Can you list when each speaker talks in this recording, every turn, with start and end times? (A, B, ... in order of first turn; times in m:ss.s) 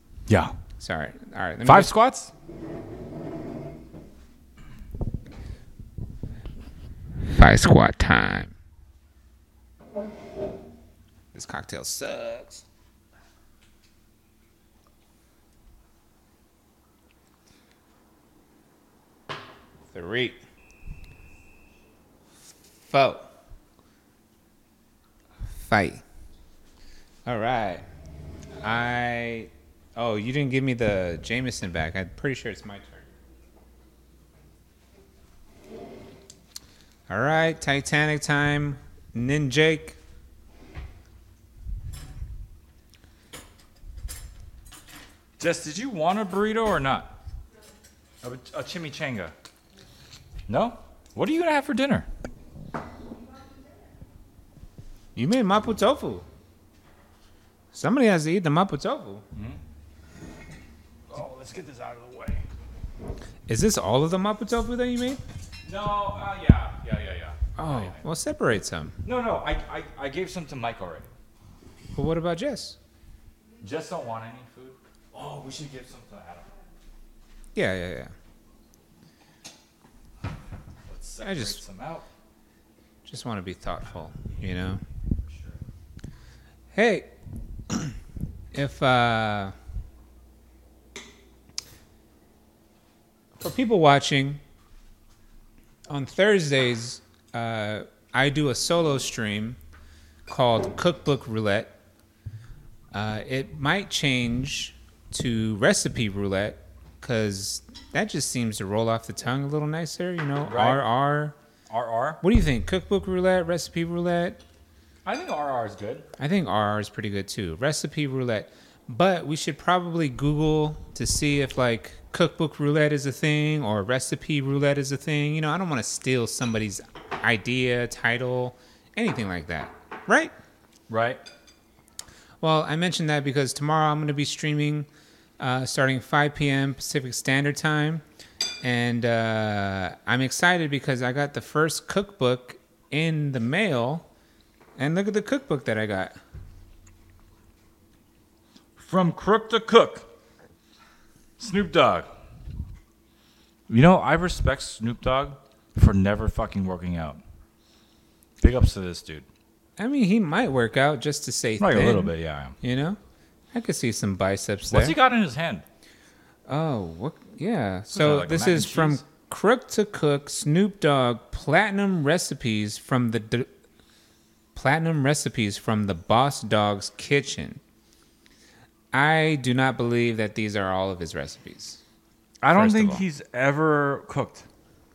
0:00.3-0:00.5 A
0:00.8-0:01.9 B
0:01.6-0:02.3 A
0:07.2-0:08.5 B
0:11.3-0:12.6 B
0:19.9-0:20.4 B
0:22.8-0:23.3 B
0:25.5-0:26.0 B
0:27.2-0:27.8 B
0:28.6-0:33.1 B
0:37.1-0:40.0 B
0:45.4-0:47.1 A
0:48.2-0:49.3 A
0:50.5-0:52.1 A
0:55.1-0:56.2 B
0:57.7-0:59.2 B
0:59.3-0:59.6 A
1:01.1-1:02.4 A
1:03.5-1:05.2 B
1:05.6-1:08.0 A
1:07.6-1:09.0 B
1:09.0-1:11.1 A
1:11.9-1:12.8 B
1:13.6-1:16.5 A
1:17.5-1:18.1 B
1:20.9-1:22.1 A
1:21.2-1:21.6 B
1:23.0-1:24.8 B
1:26.7-1:27.1 B
1:27.7-1:28.0 B
1:28.5-1:29.5 B
1:33.4-1:34.4 B
1:35.9-1:39.6 B
1:40.3-1:41.7 B
1:42.9-1:51.4 B
1:50.4-1:50.8 A
1:51.7-1:52.2 A
1:52.2-1:54.4 B
1:55.0-1:56.0 A
1:56.2-2:10.3 B
2:10.9-2:11.2 A
2:12.4-2:18.0 B
2:18.6-2:24.0 B
2:24.8-2:26.2 B
2:28.8-2:30.1 A
2:31.4-2:32.1 A
2:33.7-2:37.2 A
2:38.4-2:39.2 A
2:39.8-2:43.0 B
2:41.6-2:42.5 A
2:43.5-2:44.9 B
2:44.7-2:45.6 A
2:46.5-2:53.5 B
2:47.9-2:49.0 A
2:54.5-2:57.6 B
2:58.9-3:01.8 B
3:02.4-3:04.4 A
3:02.5-3:03.0 B